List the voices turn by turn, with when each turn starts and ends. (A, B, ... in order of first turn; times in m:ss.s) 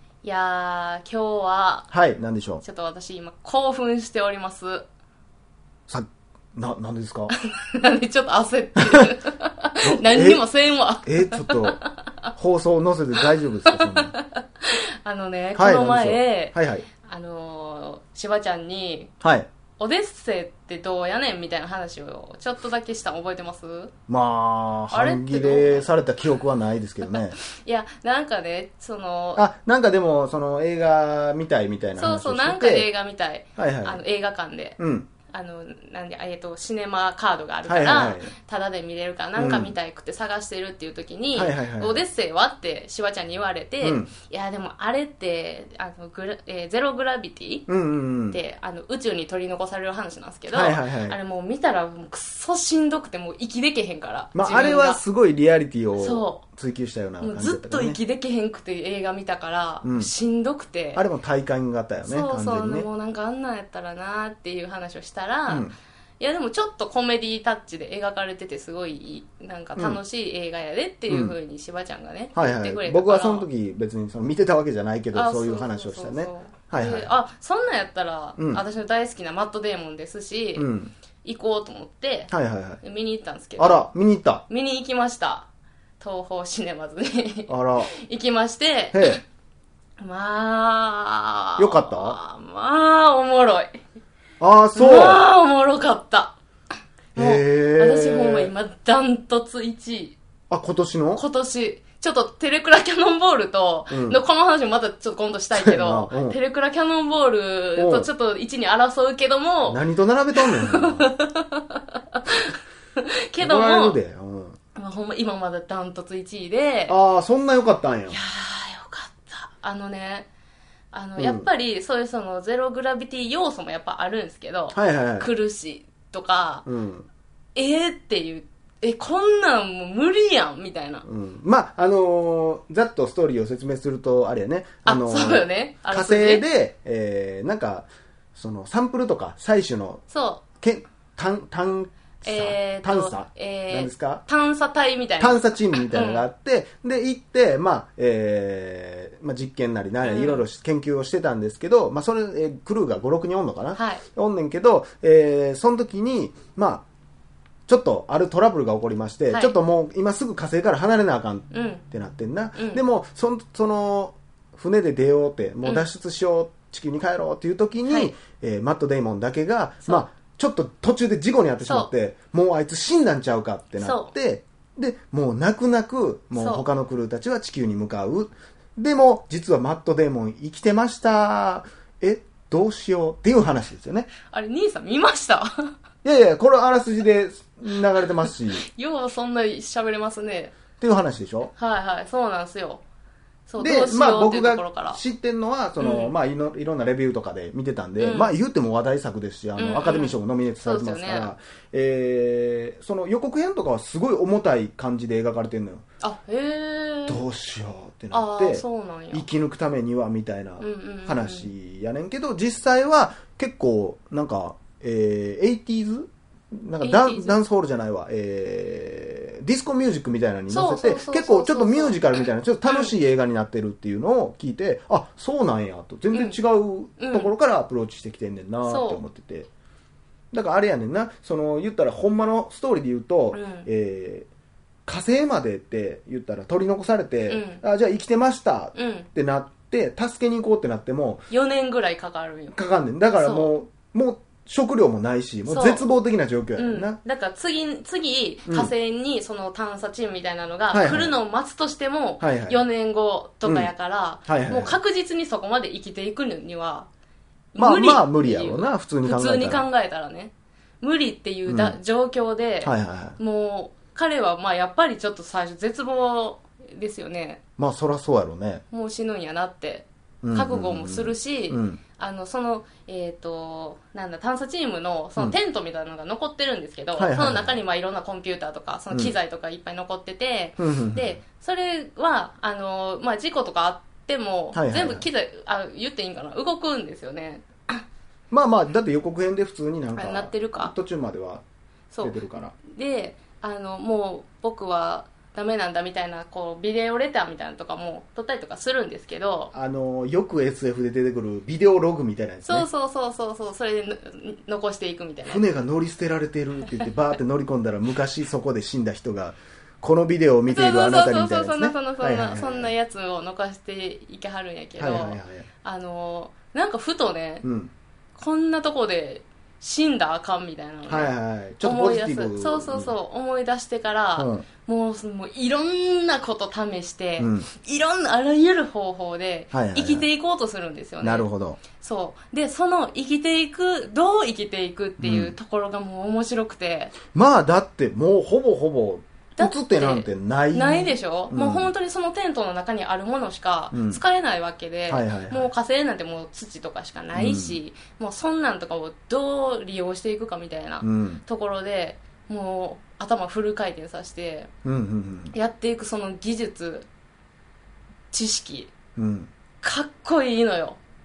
0:00.2-0:01.9 A
0:01.9-0:02.6 B
0:02.6-0:04.8 A
0:05.9-0:07.3 B
0:07.4-0:12.1 A
0:08.8-0:09.1 B
0:09.8-0:10.4 B
0:11.0-0:11.8 B
0:12.4-0:14.1 B
0:13.7-0:19.1 A
0:15.6-0:16.9 B
0:19.2-0:19.5 B
0:19.8-0:23.9 A
0:24.1-0:27.4 B
0:24.9-0:25.9 A
0:27.0-0:29.4 A
0:29.4-0:32.9 B
0:32.0-0:34.8 A
0:33.6-0:34.0 B
0:34.8-0:35.1 B
0:35.3-0:47.7 A
0:37.7-0:38.3 B
0:39.4-0:39.7 B
0:41.3-0:42.0 B
0:43.8-0:44.1 B
0:47.7-0:48.4 B
0:48.3-0:55.0 A
0:50.5-0:51.2 B
0:54.3-0:58.0 B
0:56.0-0:56.4 A
0:57.2-1:01.0 A
0:59.8-1:00.1 B
1:01.0-1:02.9 B
1:02.0-1:13.5 A
1:05.5-1:05.7 B
1:11.1-1:11.4 B
1:12.3-1:17.1 B
1:15.1-1:20.7 A
1:18.4-1:18.6 B
1:20.6-1:20.9 B
1:21.2-1:22.3 A
1:22.3-1:22.8 B
1:22.8-1:23.9 A
1:23.6-1:24.4 B
1:24.5-1:25.5 A
1:26.0-1:29.2 A
1:27.5-1:27.9 B
1:28.9-1:29.2 B
1:30.0-1:33.8 A
1:31.6-1:32.2 B
1:34.4-1:35.2 B
1:34.7-1:36.3 A
1:37.1-1:38.5 B
1:37.1-1:40.2 A
1:40.5-1:41.2 B
1:41.2-1:49.8 A
1:43.9-1:44.2 B
1:45.5-1:46.4 B
1:47.8-1:48.1 B
1:49.7-1:51.1 B
1:50.4-1:54.0 A
1:53.4-1:54.6 B
1:54.7-1:57.0 A
1:56.9-1:58.2 B
1:58.1-2:00.3 A
2:00.9-2:06.6 A
2:01.2-2:01.5 B
2:04.7-2:05.3 B
2:06.6-2:07.1 B
2:07.5-2:11.0 A
2:11.0-2:20.0 B
2:14.8-2:16.4 A
2:20.1-2:20.4 A
2:20.6-2:24.2 B
2:22.2-2:26.2 A
2:25.2-2:36.8 B
2:30.0-2:30.4 A
2:33.7-2:34.0 A
2:37.7-3:04.1 B
2:39.3-2:39.6 A
2:41.5-2:41.8 A
2:42.6-2:42.8 A
2:47.9-2:48.1 A
2:51.6-2:51.9 A
2:53.8-2:54.1 A
2:56.3-2:56.6 A
3:04.3-3:05.7 A
3:06.0-3:08.6 B
3:08.2-3:10.5 A
3:10.8-3:11.5 B
3:11.6-3:12.8 A
3:13.5-3:15.0 A
3:13.6-3:25.8 B
3:15.8-3:16.1 A
3:18.0-3:18.4 A
3:19.6-3:21.3 A
3:26.0-3:27.2 A
3:27.1-3:49.5 B
3:28.1-3:29.2 A
3:30.6-3:31.5 A
3:36.8-3:37.4 A
3:40.5-3:42.9 A
3:46.1-3:46.4 A
3:47.0-3:47.3 A
3:48.6-3:49.0 A
3:50.3-3:54.3 B
3:53.3-3:53.7 A
3:54.8-4:01.2 B
3:57.3-3:57.6 A
3:58.7-3:59.1 A
4:01.3-4:02.5 A
4:02.5-4:07.0 B
4:03.1-4:03.5 A
4:05.4-4:05.8 A
4:06.6-4:16.9 A
4:08.5-4:08.7 B
4:10.7-4:11.1 B
4:12.2-4:12.6 B
4:13.4-4:13.7 B
4:14.2-4:14.8 B
4:17.5-4:27.4 A
4:17.6-4:19.6 B
4:21.4-4:21.8 B
4:22.6-4:23.2 B
4:27.6-4:28.6 B
4:28.7-4:47.8 A
4:30.2-4:31.8 B
4:37.0-4:37.6 B
4:40.6-4:41.2 B
4:44.5-4:45.0 B
4:48.3-4:51.4 B
4:49.9-4:50.7 A
4:51.9-4:59.5 A
4:52.0-4:52.5 B
4:59.5-5:02.7 B
5:02.4-5:05.4 A
5:05.2-5:12.7 B
5:10.4-5:17.4 A
5:14.8-5:15.5 B
5:17.4-5:17.7 B
5:18.2-5:21.1 A
5:20.9-5:23.0 B
5:21.6-5:36.9 A
5:24.2-5:24.4 B
5:27.2-5:27.5 B
5:29.5-5:30.1 B
5:31.0-5:31.6 B
5:35.0-5:35.3 B
5:37.1-5:41.7 B
5:39.4-5:54.5 A
5:43.7-5:44.0 B
5:44.9-5:45.5 B
5:47.1-5:47.6 B
5:50.8-5:51.2 B
5:54.6-5:55.3 B
5:55.3-5:56.9 A
5:58.1-5:58.7 A
5:59.0-5:59.3 B
5:59.6-6:00.8 A